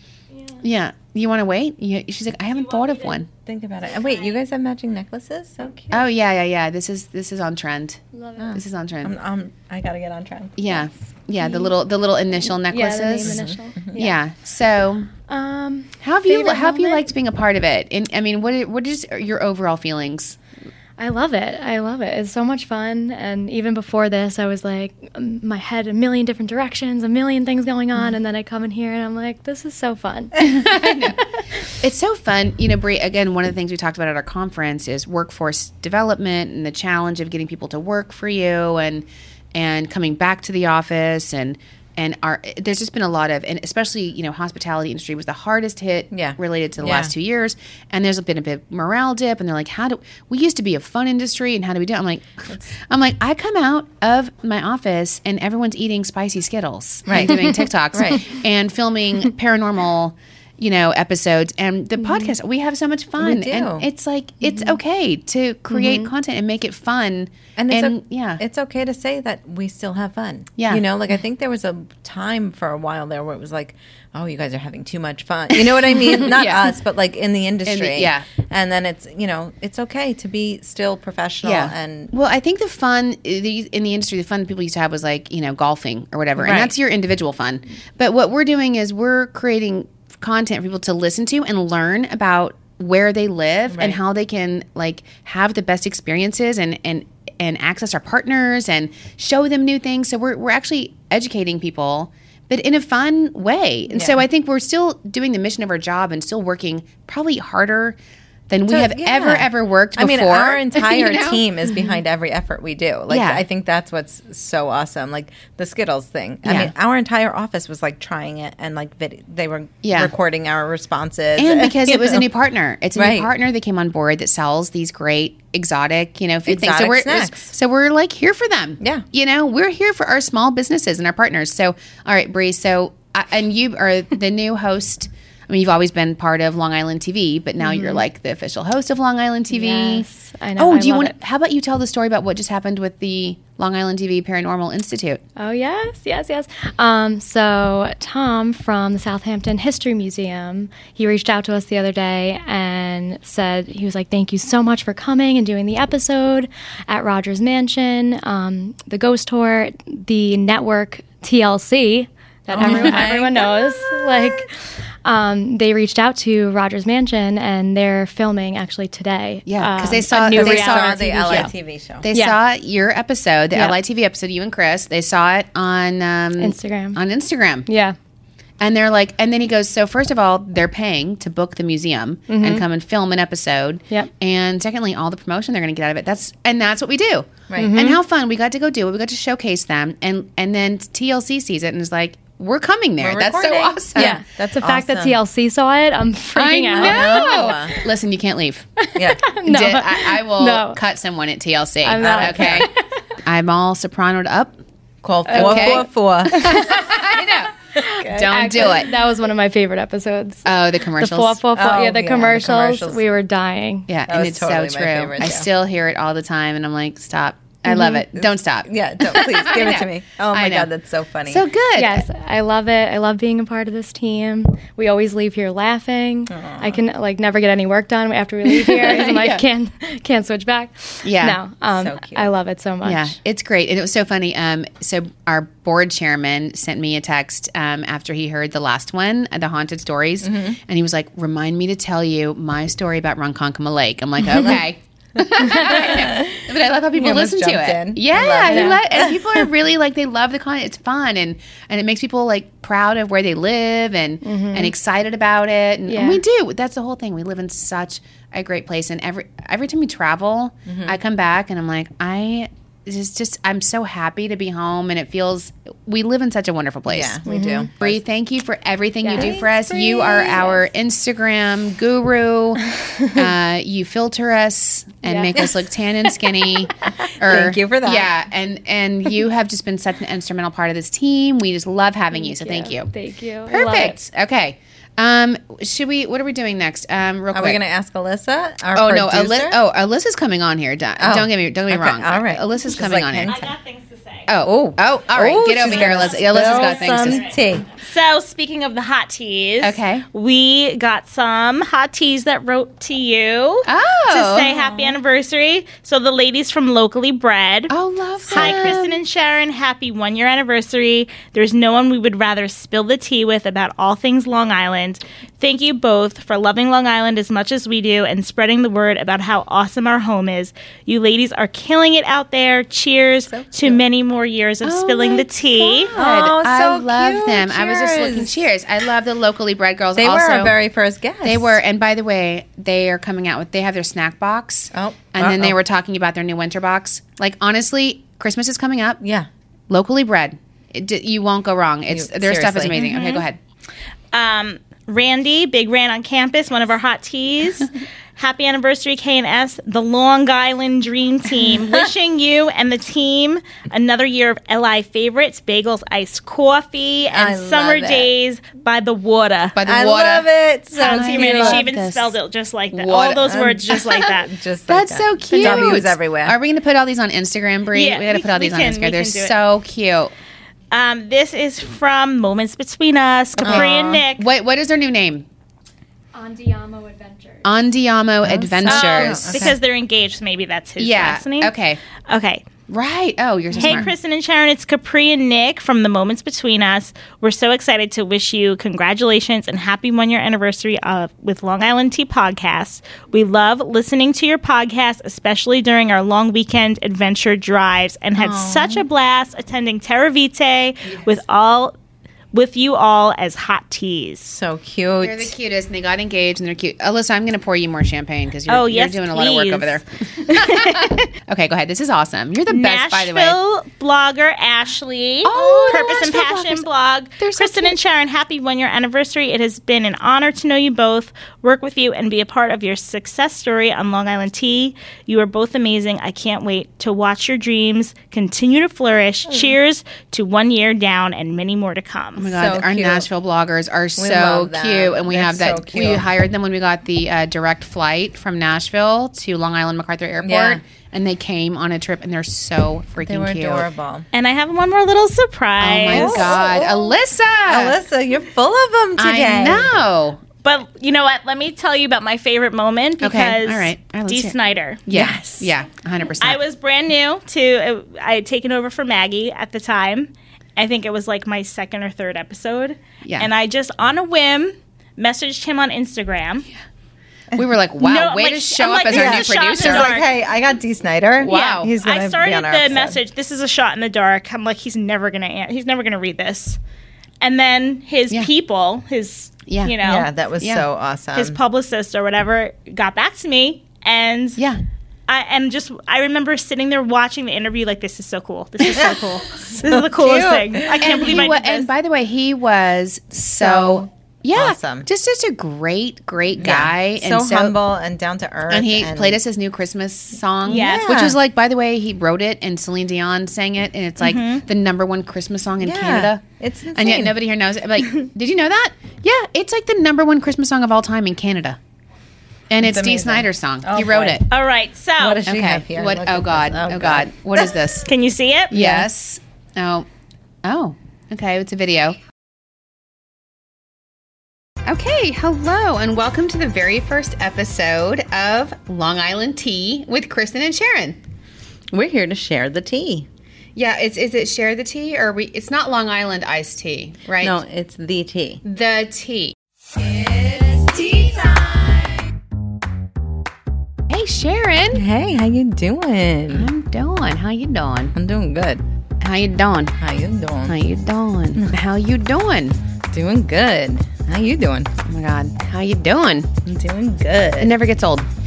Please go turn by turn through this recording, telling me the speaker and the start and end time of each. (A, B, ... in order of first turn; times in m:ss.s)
0:00.6-0:03.3 A
0:02.6-0:03.2 B
0:03.4-0:06.1 C
0:03.9-0:04.3 B
0:05.9-0:08.0 A
0:08.1-0:08.4 D
0:08.4-0:10.9 C
0:08.5-0:09.1 A
0:10.6-0:15.1 A
0:11.4-0:11.7 D
0:12.7-0:14.2 D
0:13.2-0:14.0 C
0:15.3-0:17.1 D
0:16.0-0:20.4 A
0:21.0-0:30.7 D
0:30.4-0:31.2 A
0:31.8-1:08.4 A
0:46.1-0:47.1 C
0:57.1-0:58.3 C
1:02.0-1:02.3 D
1:03.2-1:03.9 C
1:05.7-1:06.1 D
1:07.6-1:22.1 C
1:10.6-1:10.8 A
1:15.5-1:16.7 A
1:17.6-1:18.3 A
1:21.4-1:48.0 A
1:26.4-1:26.7 C
1:33.7-1:34.0 C
1:43.9-1:44.2 C
1:48.5-1:51.4 A
1:48.7-2:02.3 C
1:53.1-1:53.4 A
1:56.4-1:56.7 A
1:59.8-2:00.1 A
2:01.4-2:20.1 A
2:03.0-2:03.3 C
2:06.5-2:07.5 C
2:17.6-2:18.0 D
2:19.5-2:21.1 D
2:20.6-2:25.2 A
2:25.4-2:51.5 D
2:42.5-2:44.4 C
2:42.6-2:43.0 A
2:49.5-2:57.7 A
2:50.3-2:52.0 C
2:52.1-2:52.4 D
2:56.4-2:57.0 D
2:57.7-2:58.0 D
2:58.6-3:14.2 A
3:02.3-3:02.6 D
3:07.6-3:08.0 D
3:13.0-3:15.2 C
3:14.0-3:17.8 D
3:16.3-3:18.7 A
3:16.7-3:17.7 C
3:18.8-3:20.8 D
3:19.0-3:19.2 C
3:19.4-3:22.7 A
3:21.8-3:22.8 D
3:22.0-3:22.7 C
3:23.2-3:24.6 A
3:25.0-3:26.5 C
3:25.3-3:27.5 A
3:25.3-3:27.0 D
3:27.8-3:28.6 C
3:28.1-3:33.9 D
3:28.1-3:28.9 A
3:30.4-3:31.4 A
3:31.6-3:33.0 C
3:33.9-3:40.7 A
3:34.1-3:35.5 C
3:38.2-3:41.4 C
3:41.3-3:42.1 A
3:41.8-3:53.2 D
3:46.3-3:46.8 C
3:48.6-3:49.4 A
3:51.0-3:51.4 A
3:51.8-3:52.3 C
3:52.8-4:27.2 A
4:00.2-4:00.6 C
4:04.3-4:04.6 C
4:05.4-4:09.5 C
4:08.5-4:08.8 D
4:14.2-4:14.7 D
4:15.9-4:16.2 D
4:20.7-4:21.0 C
4:26.9-4:27.9 C
4:27.3-4:27.7 D
4:27.8-4:32.6 A
4:29.0-4:30.4 D
4:29.1-4:30.5 C
4:33.1-4:42.9 A
4:35.0-4:35.4 D
4:37.0-4:38.1 C
4:42.1-4:44.0 D
4:43.5-4:47.6 A
4:47.3-4:49.6 C
4:48.7-4:53.3 A
4:51.0-4:53.5 C
4:53.3-4:54.3 B
4:54.3-4:57.3 A
4:54.5-4:57.7 C
4:55.6-5:07.7 B
4:59.6-5:00.0 A
5:03.7-5:04.5 A
5:04.5-5:05.0 C
5:07.7-5:09.0 A
5:08.3-5:25.9 B
5:08.3-5:08.6 C
5:23.3-5:23.8 C
5:24.6-5:30.6 A
5:25.9-5:28.5 C
5:30.0-5:31.6 C
5:31.2-5:39.0 A
5:34.7-5:35.6 C
5:39.0-5:39.3 C
5:39.7-5:43.4 A
5:41.9-5:42.8 C
5:42.8-5:43.2 B
5:44.1-5:59.6 B
5:57.1-5:58.1 C
5:59.6-6:02.2 A
5:59.6-6:01.7 C
6:00.8-6:04.3 B
6:02.7-6:06.4 C
6:04.7-6:10.1 A
6:05.3-6:05.8 B
6:07.7-6:09.3 B
6:10.7-6:14.3 B
6:13.4-6:14.0 C
6:13.4-6:15.3 A
6:16.1-6:17.4 D
6:17.4-6:19.5 A
6:18.2-6:19.6 C
6:18.7-6:21.5 B
6:20.8-6:21.8 A
6:22.1-6:22.4 B
6:22.7-6:23.9 A
6:23.6-6:41.7 B
6:38.2-6:38.9 C
6:42.3-6:44.4 B
6:44.3-6:45.3 C
6:45.0-6:53.4 A
6:48.5-6:51.0 B
6:52.5-7:12.3 B
6:55.2-6:56.7 A
6:55.4-6:55.7 C
6:57.2-6:57.8 A
7:09.3-7:09.6 C
7:12.2-7:23.7 A
7:12.3-7:13.1 C
7:14.0-7:16.1 C
7:20.2-7:20.6 C
7:23.0-7:24.1 C
7:24.1-7:26.3 B
7:25.6-7:27.8 A
7:25.9-7:26.9 C
7:27.5-7:29.7 C
7:29.0-7:30.2 A
7:30.4-7:34.8 B
7:33.0-7:34.4 A
7:34.9-7:36.4 A
7:34.9-7:35.5 C
7:36.2-7:46.5 B
7:43.0-7:43.3 A
7:47.4-7:49.9 A
7:47.8-7:50.1 B
7:48.9-7:53.0 C
7:51.2-7:51.7 A
7:51.2-7:56.6 B
7:57.2-8:00.1 B
7:59.5-7:59.8 A
7:59.8-8:01.4 C
8:00.4-8:00.7 A
8:01.2-8:04.4 B
8:05.1-8:11.7 B
8:08.7-8:09.0 C
8:09.6-8:11.1 C
8:10.8-8:17.6 A
8:13.4-8:14.9 C
8:16.4-8:19.2 C
8:18.5-8:26.2 A
8:20.5-8:21.2 C
8:20.5-8:20.9 B
8:24.0-8:24.4 B
8:25.6-8:27.2 C
8:26.8-8:31.6 A
8:32.5-8:34.2 A
8:32.6-8:34.2 C
8:34.3-8:35.2 B
8:35.0-8:37.1 C
8:35.2-8:37.9 A
8:37.9-8:38.6 B
8:38.5-8:39.9 A
8:38.5-8:38.8 C
8:40.4-8:42.0 A
8:44.6-8:51.0 A
8:51.7-8:53.1 C
8:53.6-8:57.4 A
8:57.2-8:58.4 C
8:58.4-8:59.4 A
9:00.0-9:01.5 C
9:03.9-9:04.8 A
9:04.7-9:06.5 C
9:06.3-9:07.9 A
9:08.0-9:08.6 C
9:09.0-9:09.7 A
9:09.8-9:10.6 C
9:10.5-9:12.6 A
9:12.9-9:14.7 C
9:14.8-9:16.3 A
9:16.5-9:17.5 C
9:17.4-9:18.1 A